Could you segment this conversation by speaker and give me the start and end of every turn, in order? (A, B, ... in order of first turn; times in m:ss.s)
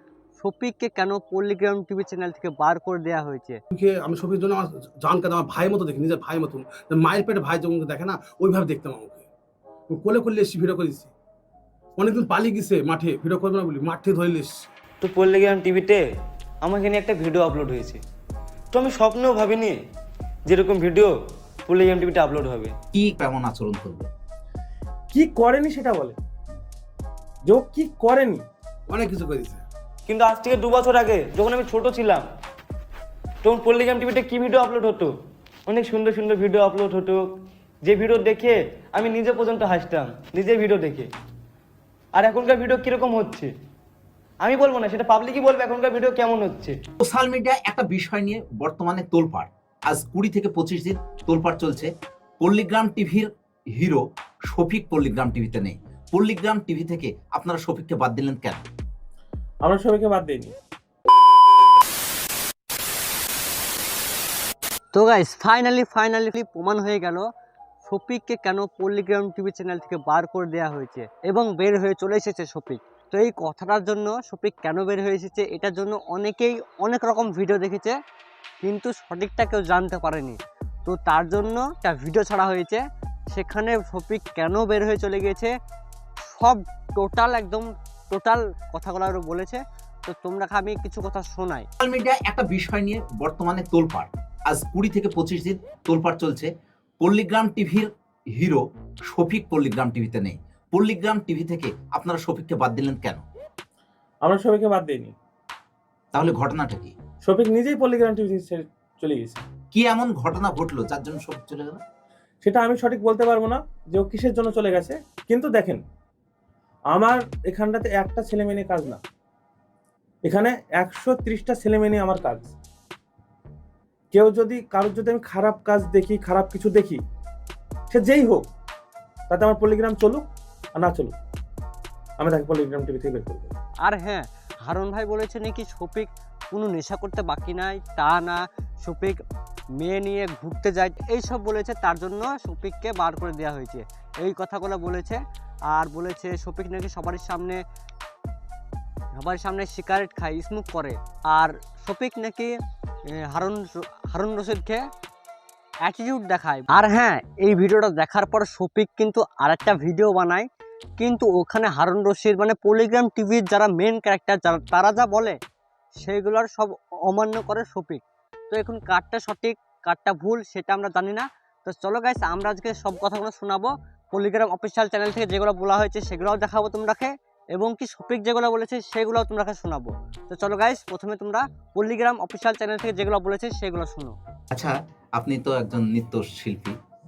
0:00.4-0:03.6 A
0:03.7-0:09.3 B
0:09.9-0:11.1 B
0:12.0-0:14.5 B
0:15.0-0:16.0 C
0:16.6-0:18.0 C
0:18.7-0:19.8 C
0:20.5-0:21.1 C
0:21.6-0:22.7 C
0:22.9-0:24.1 D
0:25.1-0:26.2 E
0:27.5-0:28.4 E
0:28.9-0:29.6 B
0:30.1-0:32.2 C
0:33.4-0:35.1 C
0:35.7-0:37.2 C
0:37.8-0:41.1 C
0:42.2-0:43.5 C
0:44.4-0:46.8 C
0:47.0-0:58.6 D
0:59.6-1:00.5 E
1:04.9-1:07.2 A
1:07.8-1:18.0 A
1:18.6-1:22.8 A
1:23.3-1:25.5 A
1:26.3-1:31.7 A
1:31.8-1:43.2 D
1:44.2-1:45.1 E
1:46.1-1:46.9 D
1:47.2-1:49.4 E
1:49.7-1:51.8 D
1:52.4-1:55.8 E
1:56.9-1:59.0 E
2:00.2-2:02.5 E
2:04.1-2:07.0 E
2:07.9-2:08.4 E
2:09.3-2:11.1 E
2:12.2-2:13.6 E
2:13.8-2:19.2 A
2:19.8-2:25.2 A
2:25.7-2:27.6 A
2:29.2-2:32.6 A
2:33.2-2:34.8 A
2:35.8-2:40.5 A
2:41.0-2:45.4 A
2:46.0-3:04.2 A
3:04.5-3:06.8 D